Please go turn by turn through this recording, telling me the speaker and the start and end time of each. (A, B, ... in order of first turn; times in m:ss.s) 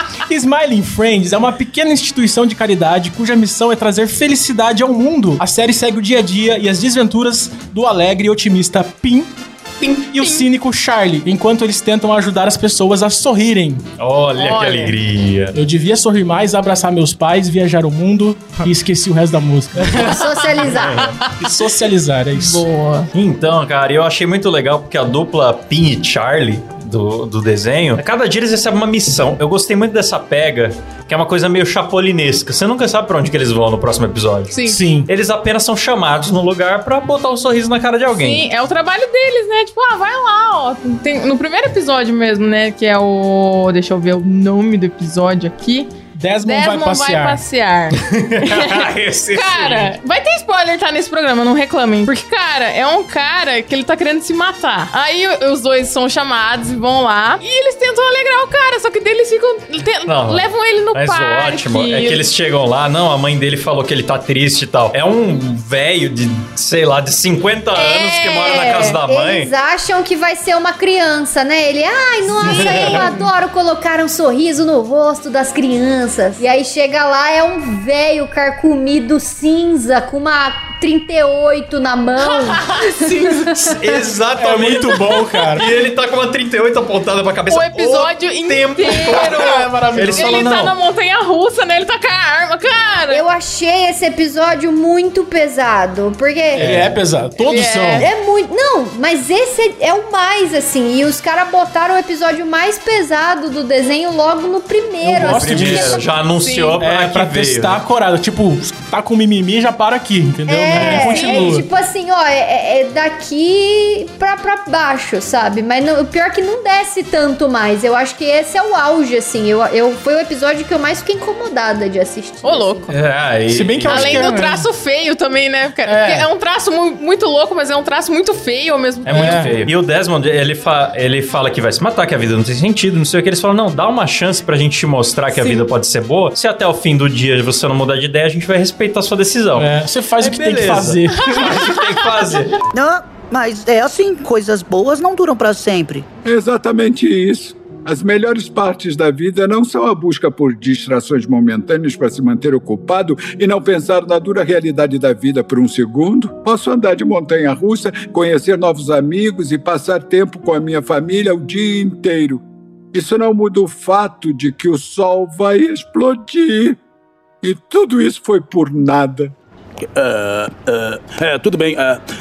0:00.2-0:09.3 A
0:09.8-0:10.1 B
0:10.1-0:13.8 A
0:14.0-0:15.6 B
0:14.4-0:14.9 C
0:15.5-0:20.1 A
0:19.9-0:21.1 D
0:20.0-0:21.1 B
0:21.4-0:22.6 A
0:22.4-0:23.1 C
0:23.1-0:34.5 B
0:34.5-0:34.8 C
0:34.7-0:35.1 A
0:35.1-0:38.4 B
0:38.1-0:45.9 C
0:46.1-0:47.4 A
0:46.4-1:02.2 C
0:48.0-0:50.0 B
1:00.0-1:09.5 B
1:07.7-1:09.0 C
1:09.0-1:24.0 D
1:12.4-1:13.0 B
1:12.5-1:13.3 C
1:22.3-1:23.7 C
1:23.7-1:30.8 B
1:24.4-1:25.6 A
1:27.5-1:33.2 C
1:29.0-1:30.3 A
1:33.1-1:36.9 D
1:36.5-1:38.1 A
1:36.6-1:36.9 B
1:37.4-1:38.1 C
1:38.0-1:46.0 D
1:45.0-1:46.0 A
1:45.1-1:47.8 B
1:46.2-1:46.8 C
1:46.8-1:51.6 A
1:50.5-2:02.9 D
1:50.7-1:51.4 B
2:02.4-2:02.9 C
2:02.9-2:04.4 B
2:03.5-2:04.6 A
2:03.9-2:09.5 C
2:05.9-2:06.3 A
2:09.0-2:22.6 B
2:09.1-2:09.6 A
2:15.3-2:15.6 C
2:19.6-2:21.5 A
2:21.2-2:22.3 C
2:22.7-2:26.0 E
2:26.2-2:42.4 F
2:42.9-2:46.8 F
2:47.4-2:49.3 F
2:49.9-2:52.0 G